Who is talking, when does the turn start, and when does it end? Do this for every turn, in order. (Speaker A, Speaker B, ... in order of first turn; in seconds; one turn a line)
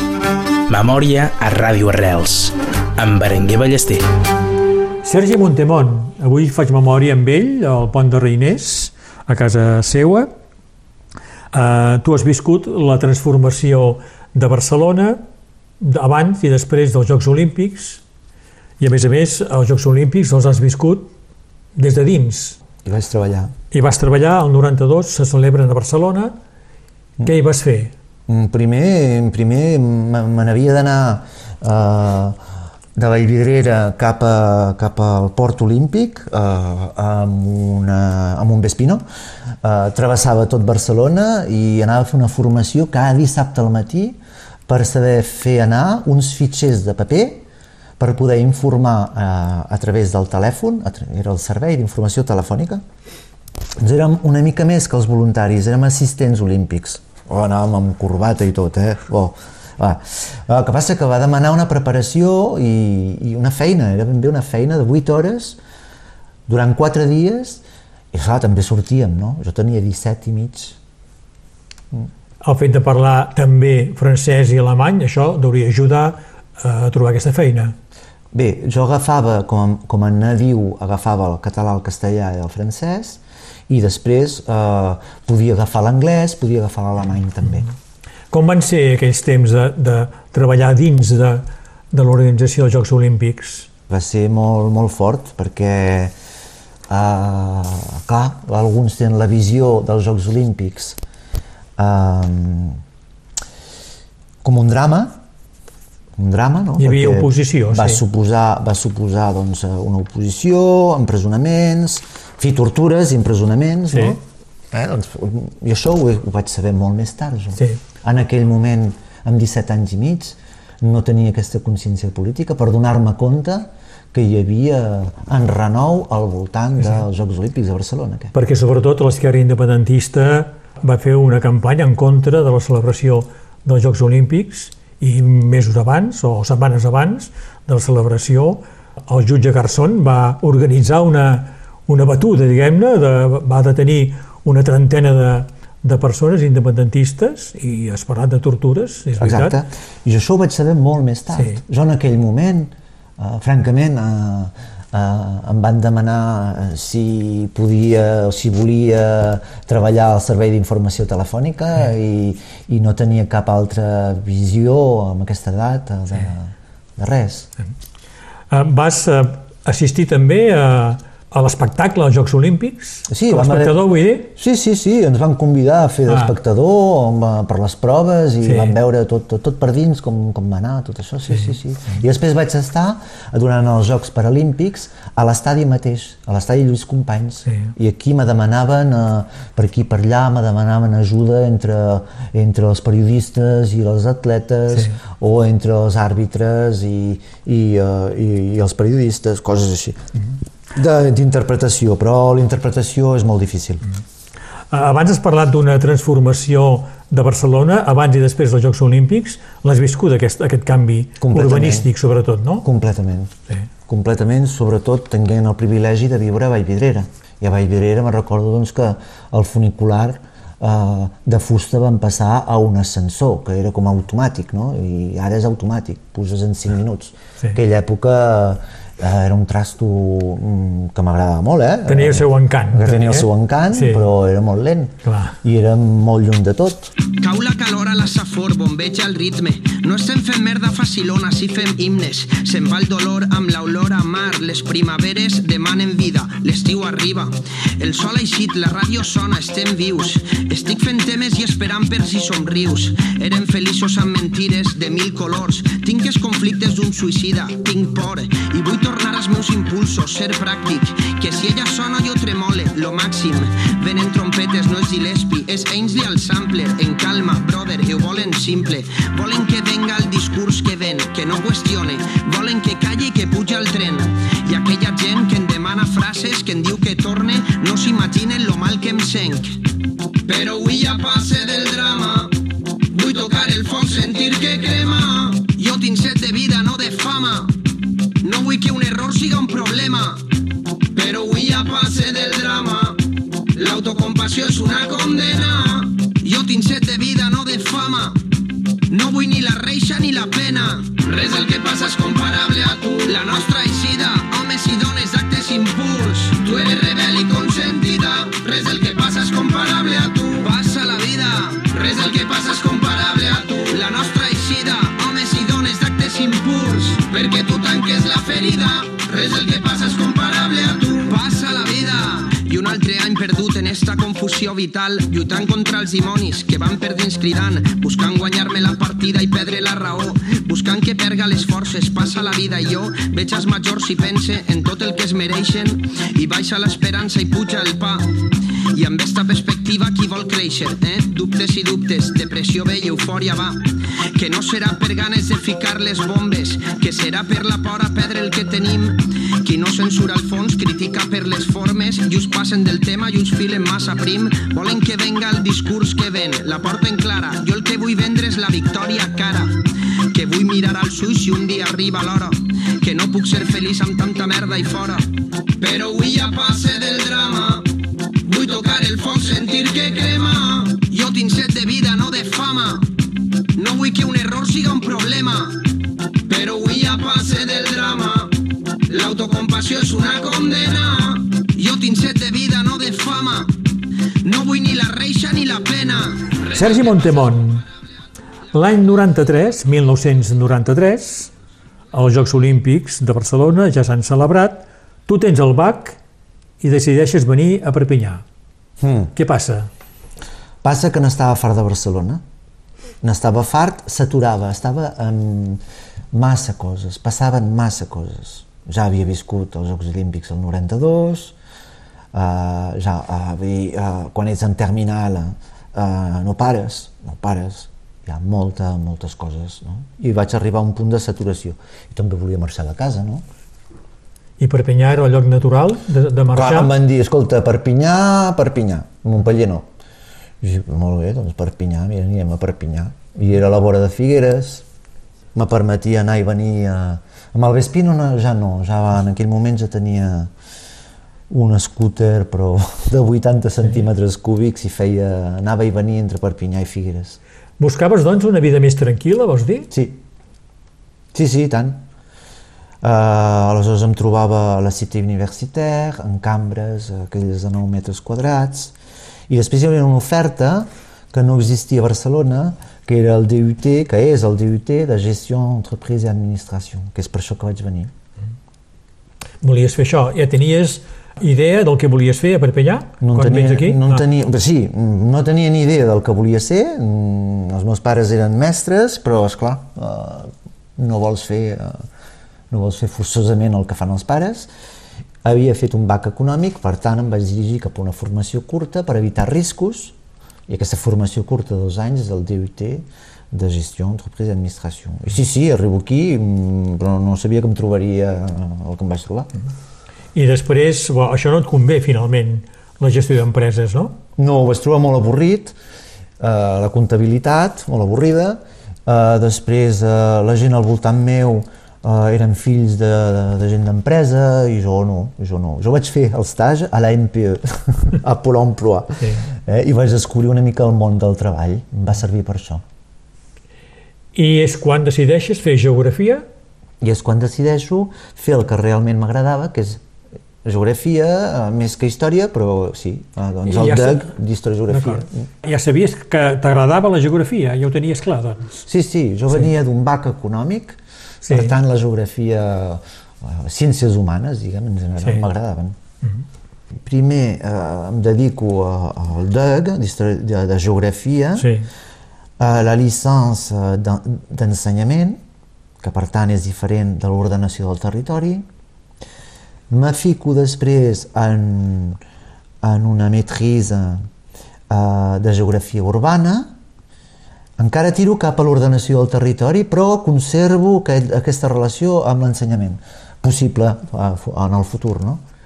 Speaker A: 0.7-4.0
Speaker B: 5.0-10.3
Speaker B: 11.5-15.2
Speaker B: 15.8-18.0
Speaker B: 18.8-21.1
Speaker B: 21.8-22.6
Speaker C: 22.9-23.5
Speaker B: 23.7-26.4
Speaker B: 27.2-27.9
Speaker C: 28.3-32.4
Speaker C: 33.0-39.0
Speaker C: 39.6-47.5
Speaker C: 48.0-52.8
Speaker C: 53.8-65.6
Speaker C: 66.5-70.8
Speaker B: 72.4-77.8
Speaker C: 78.3-87.7
Speaker B: 88.3-93.7
Speaker C: 93.9-96.1
Speaker C: 96.9-101.0
Speaker C: 101.8-102.8
Speaker C: 104.4-105.2
Speaker C: 106.2-114.2
Speaker B: 106.8-108.0
Speaker B: 113.9-114.2
Speaker C: 114.7-128.3
Speaker B: 128.3-149.6
Speaker C: 149.2-167.5
Speaker B: 151.3-151.6
Speaker B: 168.5-174.3
Speaker C: 173.1-200.1
Speaker B: 178.4-178.8
Speaker C: 200.7-203.9
Speaker B: 204.7-212.7
Speaker C: 211.2-211.9
Speaker C: 212.6-213.3
Speaker C: 213.9-236.9
Speaker B: 231.9-234.1
Speaker B: 235.0-235.4
Speaker D: 237.1-279.6
Speaker D: 280.3-282.4
Speaker D: 282.9-287.6
Speaker D: 288.2-290.3
Speaker D: 290.9-298.2
Speaker D: 298.9-338.1
Speaker D: 338.7-359.6
Speaker D: 360.1-367.7
Speaker D: 368.2-372.9
Speaker D: 373.6-375.7
Speaker D: 376.3-383.5
Speaker D: 384.2-386.8
Speaker B: 386.5-387.7
Speaker B: 388.5-391.3
Speaker B: 391.9-396.0
Speaker B: 396.6-398.2
Speaker C: 398.8-399.1
Speaker B: 399.1-399.7
Speaker C: 400.6-402.2
Speaker C: 403.0-405.6
Speaker C: 406.1-411.4
Speaker C: 412.1-423.2
Speaker B: 424.4-426.7
Speaker C: 426.3-429.7
Speaker C: 430.4-434.6
Speaker C: 435.4-440.3
Speaker C: 441.3-447.2
Speaker B: 447.6-449.7
Speaker C: 449.7-450.0
Speaker C: 451.1-451.8
Speaker C: 452.8-458.7
Speaker C: 459.3-467.9
Speaker B: 469.4-474.0
Speaker C: 473.0-481.8
Speaker C: 482.5-484.5
Speaker C: 485.2-489.9
Speaker C: 490.5-499.3
Speaker B: 500.1-504.0
Speaker C: 504.2-505.6
Speaker C: 506.2-522.6
Speaker B: 524.1-526.2
Speaker C: 526.8-529.8
Speaker C: 530.4-535.1
Speaker B: 533.5-534.1
Speaker B: 534.7-538.6
Speaker C: 538.7-545.8
Speaker B: 541.2-541.5
Speaker C: 546.9-551.5
Speaker B: 551.4-551.7
Speaker C: 552.4-555.2
Speaker C: 555.8-558.5
Speaker C: 559.7-562.0
Speaker C: 562.6-564.1
Speaker C: 564.7-566.5
Speaker C: 567.6-575.2